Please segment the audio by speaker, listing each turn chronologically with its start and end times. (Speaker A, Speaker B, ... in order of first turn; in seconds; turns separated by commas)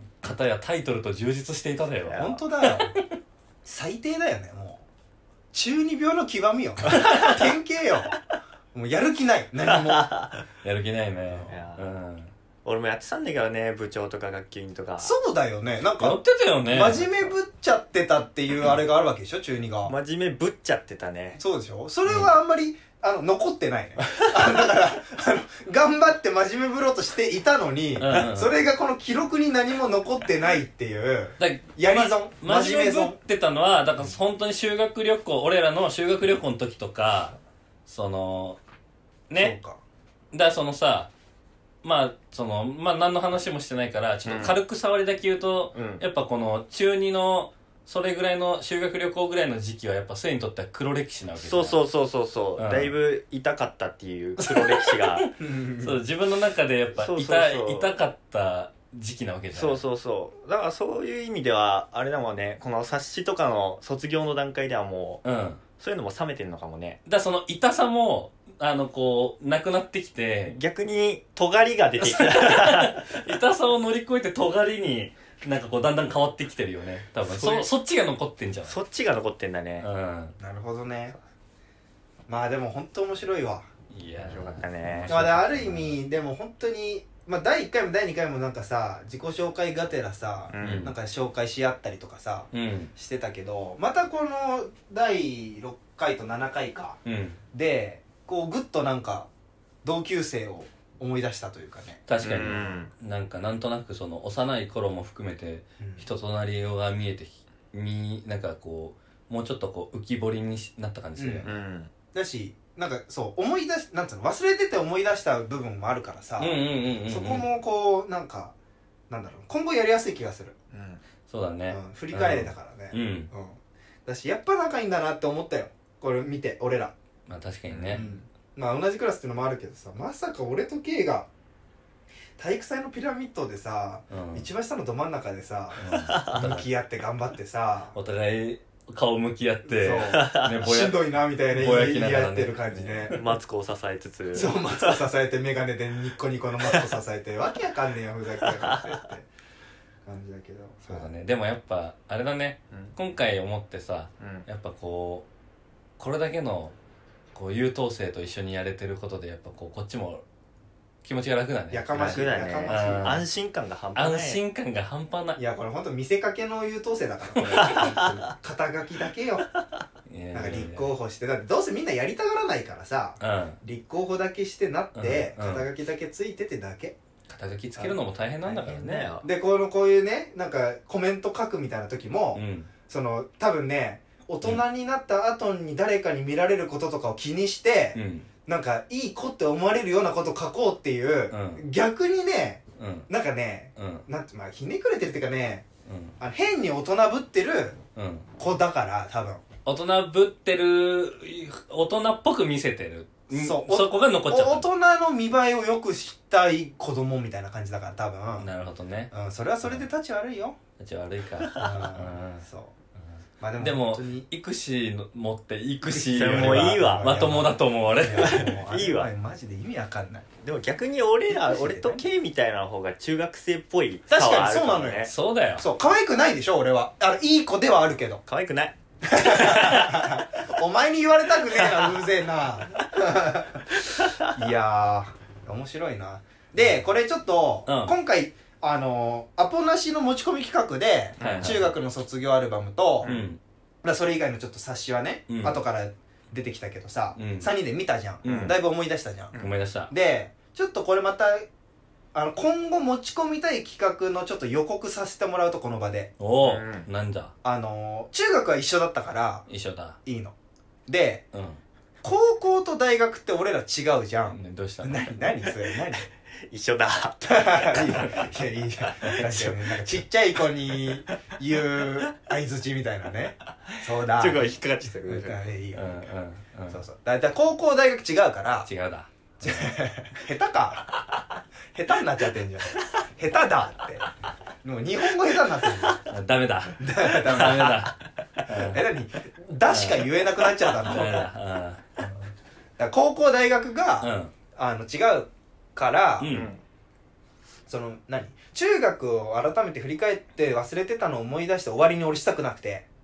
Speaker A: 0.2-3.0, Speaker B: 2.1-2.4, Speaker C: 2.1-2.9, Speaker C: 3.6-4.8, Speaker C: 5.5-8.2, Speaker C: 8.7-10.2, Speaker B: 9.8-10.4, Speaker A: 10.6-12.3, Speaker B: 11.5-11.9, Speaker B: 12.6-15.1, Speaker C: 15.0-19.9, Speaker A: 16.0-17.1, Speaker B: 19.9-21.4, Speaker C: 21.4-33.2, Speaker A: 28.0-28.5, Speaker A: 31.4-38.6, Speaker A: 39.3-39.5, Speaker C: 39.3-39.8, Speaker A: 40.3-41.1, Speaker A: 41.8-51.8, Speaker B: 44.2-44.6, Speaker B: 45.7-46.0, Speaker B: 51.4-55.3, Speaker A: 52.6-52.9, Speaker A: 55.2-59.8, Speaker C: 55.4-56.0, Speaker B: 57.0-57.9, Speaker B: 59.5-65.2, Speaker A: 65.2-65.6, Speaker B: 65.8-67.0, Speaker A: 67.0-70.5, Speaker B: 70.5-73.1, Speaker A: 72.0-78.8, Speaker B: 77.2-77.7, Speaker B: 78.7-79.9, Speaker A: 79.8-80.3, Speaker C: 80.4-81.1, Speaker C: 82.3-83.7, Speaker A: 83.9-85.1, Speaker B: 84.2-86.0, Speaker C: 85.1-97.0, Speaker B: 90.5-90.9, Speaker A: 90.6-90.9, Speaker A: 92.5-92.9, Speaker A: 97.0-97.4, Speaker C: 97.5-99.3, Speaker C: 99.8-102.7, Speaker A: 102.1-111.6, Speaker B: 102.2-102.9, Speaker C: 105.8-106.0, Speaker C: 111.2-111.5, Speaker B: 111.4-111.9, Speaker C: 112.1-118.5, Speaker A: 116.4-117.5, Speaker C: 119.1-120.5, Speaker B: 120.7-121.0, Speaker A: 121.2-123.3, Speaker C: 121.7-126.9, Speaker A: 127.3-128.1, Speaker B: 127.7-128.0, Speaker C: 127.9-131.3, Speaker C: 132.4-137.9, Speaker A: 134.1-134.5, Speaker A: 135.8-136.7, Speaker B: 136.1-136.3, Speaker A: 137.9-143.2, Speaker C: 139.7-143.2, Speaker B: 140.1-140.5, Speaker B: 143.1-145.0, Speaker C: 144.3-149.3, Speaker C: 150.0-151.1, Speaker A: 150.9-155.3, Speaker B: 154.2-154.4, Speaker A: 156.0-156.7, Speaker A: 157.3-160.2, Speaker A: 161.0-163.3, Speaker C: 161.7-163.2, Speaker B: 161.9-164.4, Speaker A: 163.9-165.4, Speaker C: 165.4-169.5, Speaker A: 167.4-167.8, Speaker B: 167.6-168.2, Speaker A: 170.1-170.9, Speaker C: 170.3-177.0, Speaker A: 173.2-173.6, Speaker A: 174.9-175.7, Speaker A: 177.3-179.2, Speaker B: 178.7-179.3, Speaker C: 179.2-195.7, Speaker A: 182.3-182.7, Speaker A: 187.9-188.3, Speaker A: 191.3-191.6, Speaker A: 192.8-193.1, Speaker A: 193.8-194.1, Speaker A: 195.8-196.1, Speaker C: 196.2-197.8, Speaker A: 197.9-198.3, Speaker C: 198.4-199.4, Speaker A: 199.6-204.7, Speaker C: 203.3-208.5, Speaker A: 208.4-209.1, Speaker C: 209.1-210.6, Speaker A: 210.8-212.4, Speaker C: 211.6-212.8, Speaker C: 213.4-214.2, Speaker A: 213.6-218.5, Speaker C: 215.8-220.3, Speaker B: 216.2-217.2, Speaker B: 218.1-219.1, Speaker B: 220.4-225.1, Speaker C: 221.3-222.0, Speaker C: 224.1-228.2, Speaker A: 225.0-225.7, Speaker B: 228.2-230.2, Speaker C: 229.0-243.1, Speaker B: 231.6-232.0, Speaker B: 233.9-234.3, Speaker A: 237.7-237.9, Speaker B: 241.2-241.7, Speaker A: 241.2-241.6, Speaker B: 243.0-243.3, Speaker A: 243.0-243.4, Speaker C: 243.8-251.5, Speaker A: 245.3-245.6, Speaker A: 247.2-247.5, Speaker A: 248.2-248.5, Speaker B: 248.2-248.6, Speaker A: 249.4-249.9, Speaker C: 252.1-256.1, Speaker A: 256.2-257.3, Speaker B: 256.4-256.9, Speaker C: 257.4-259.4, Speaker A: 259.5-260.0, Speaker C: 260.0-260.3, Speaker C: 260.9-261.2, Speaker A: 261.3-261.6, Speaker C: 262.0-266.1, Speaker A: 264.3-265.1, Speaker B: 266.5-268.3, Speaker C: 267.3-275.9, Speaker B: 268.9-269.9, Speaker B: 273.7-275.4, Speaker A: 275.7-276.8, Speaker C: 276.7-278.7, Speaker A: 278.6-279.1, Speaker C: 279.4-280.9, Speaker C: 281.7-284.1, Speaker C: 284.6-286.0, Speaker A: 286.1-288.8, Speaker C: 286.8-287.9, Speaker C: 288.5-291.3, Speaker A: 289.7-290.1, Speaker A: 290.9-291.8, Speaker C: 292.8-296.4, Speaker A: 294.0-294.3, Speaker A: 296.2-296.5, Speaker B: 296.2-296.6, Speaker C: 297.7-302.9